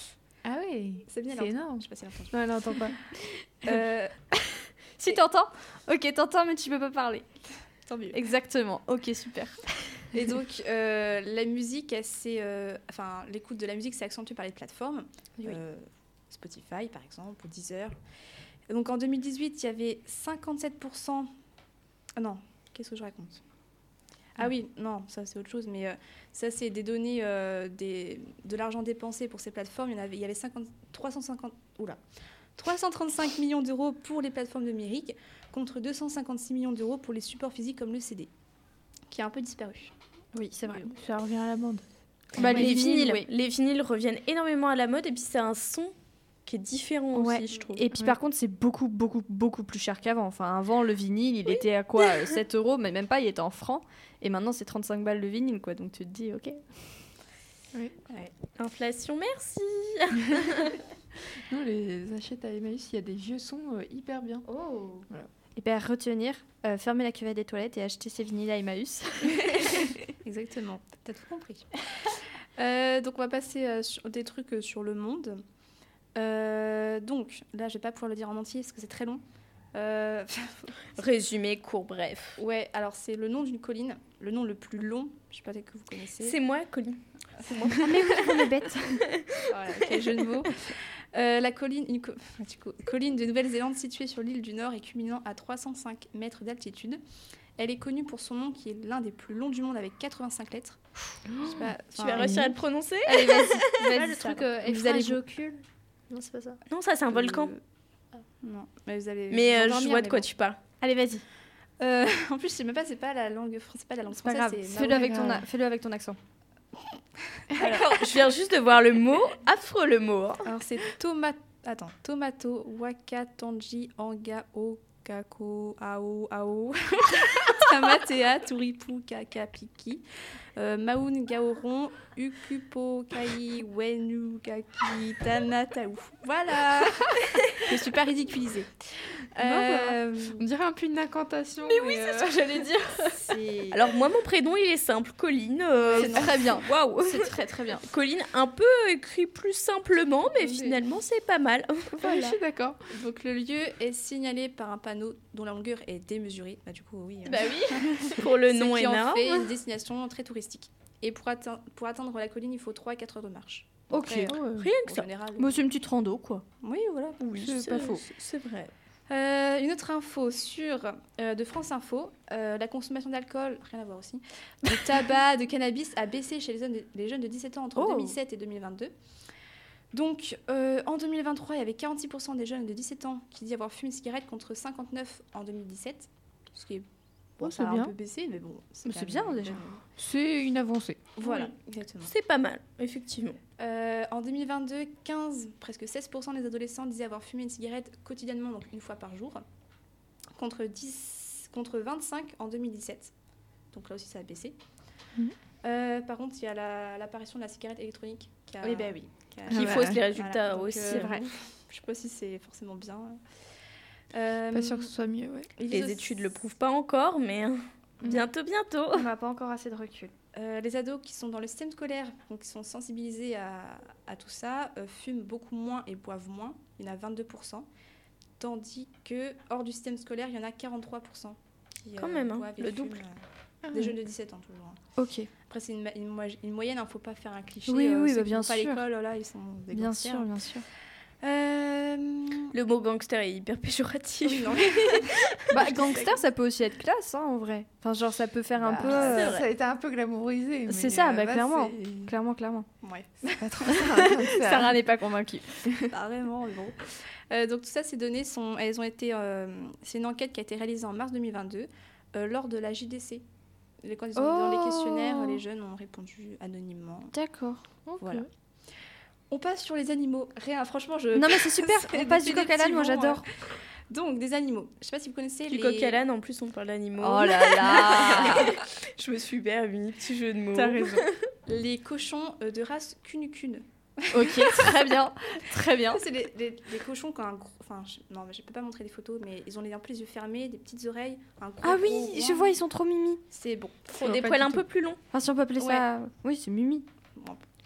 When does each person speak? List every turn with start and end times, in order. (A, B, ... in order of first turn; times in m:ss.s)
0:00.4-0:03.0 A
0:01.1-0:02.4 B
0:03.6-0:04.1 B
0:05.0-0:07.3 C
0:07.9-0:08.2 B
0:08.1-0:09.6 C
0:10.1-0:18.0 B
0:18.7-0:21.3 B
0:22.2-0:23.4 B
0:24.4-0:32.0 B
0:32.6-0:38.3 B
0:39.1-0:39.9 B
0:40.3-0:40.9 C
0:40.8-0:41.8 A
0:42.4-0:45.9 D
0:42.4-0:43.3 C
0:46.5-0:47.8 D
0:47.1-0:56.6 C
0:58.4-1:00.8 D
1:01.5-1:04.5 A
1:05.6-1:09.9 C
1:10.1-1:15.4 B
1:16.2-1:19.2 B
1:19.7-1:21.1 B
1:21.0-1:22.4 D
1:22.4-1:26.4 B
1:26.2-1:28.4 D
1:27.7-1:29.1 C
1:29.5-1:37.0 B
1:37.6-1:40.8 B
1:41.3-1:41.7 A
1:41.4-1:42.4 B
1:42.0-1:43.7 D
1:42.2-1:42.5 A
1:43.1-1:45.2 C
1:43.9-1:46.6 E
1:46.7-1:47.5 D
1:47.1-1:47.6 B
1:48.4-1:50.3 B
1:49.3-1:50.6 D
1:50.8-1:51.2 C
1:51.8-1:55.4 B
1:54.2-1:56.2 C
1:54.8-1:55.4 A
1:57.5-1:58.2 B
1:57.6-2:00.5 D
2:00.4-2:10.0 B
2:10.6-2:18.7 B
2:19.4-2:20.4 B
2:19.4-2:22.7 A
2:21.7-2:23.2 C
2:23.2-2:23.8 B
2:23.7-2:27.3 D
2:25.8-2:26.6 B
2:26.0-2:27.8 C
2:27.8-2:31.9 D
2:32.0-2:32.8 A
2:32.9-2:45.7 B
2:37.3-2:39.5 D
2:43.9-2:44.4 C
2:44.1-2:44.7 A
2:44.6-2:45.0 D
2:45.4-2:46.4 C
2:46.6-2:47.9 B
2:47.2-2:48.7 D
2:47.5-2:48.0 A
2:49.1-2:58.9 B
2:57.8-2:58.1 D
2:59.9-3:06.9 B
3:07.4-3:09.8 B
3:07.4-3:07.9 A
3:08.8-3:09.7 C
3:10.0-3:11.1 A
3:11.2-3:12.1 B
3:11.2-3:11.5 D
3:12.0-3:13.4 D
3:13.6-3:19.4 B
3:20.4-3:23.1 B
3:23.7-3:24.6 B
3:25.6-3:33.2 B
3:28.6-3:28.9 C
3:29.5-3:30.0 C
3:29.5-3:31.2 D
3:29.5-3:29.9 A
3:30.9-3:31.3 C
3:34.1-3:34.9 B
3:34.5-3:35.5 A
3:35.6-3:36.3 B
3:35.6-3:39.1 D
3:38.9-3:40.1 C
3:40.3-3:47.7 B
3:48.4-3:54.8 B
3:52.0-3:53.0 D
3:55.0-3:55.3 C
3:55.5-4:00.3 B
3:57.7-3:58.8 C
3:59.7-4:00.6 C
4:01.2-4:02.5 B
4:02.5-4:05.4 D
4:04.2-4:06.2 B
4:05.5-4:09.4 C
4:08.6-4:12.2 A
4:08.8-4:09.5 D
4:10.7-4:12.7 C
4:12.8-4:14.0 B
4:13.4-4:14.9 A
4:13.6-4:15.5 C
4:15.8-4:23.2 B
4:23.8-4:27.1 B
4:24.2-4:25.4 C
4:27.1-4:27.6 C
4:27.9-4:28.2 A
4:28.0-4:28.3 B
4:29.3-4:33.3 B
4:31.2-4:33.3 C
4:33.9-4:36.0 B
4:35.5-4:41.2 D
4:37.0-4:38.6 C
4:37.8-4:38.4 B
4:40.6-4:41.1 C
4:41.5-4:45.1 B
4:44.1-4:46.0 C
4:45.9-4:52.6 B
4:51.6-4:53.2 C
4:53.3-4:54.0 B
4:53.9-4:55.0 D
4:54.0-4:54.6 A
4:55.1-4:56.9 C
4:55.6-4:55.9 B
4:57.2-4:57.4 B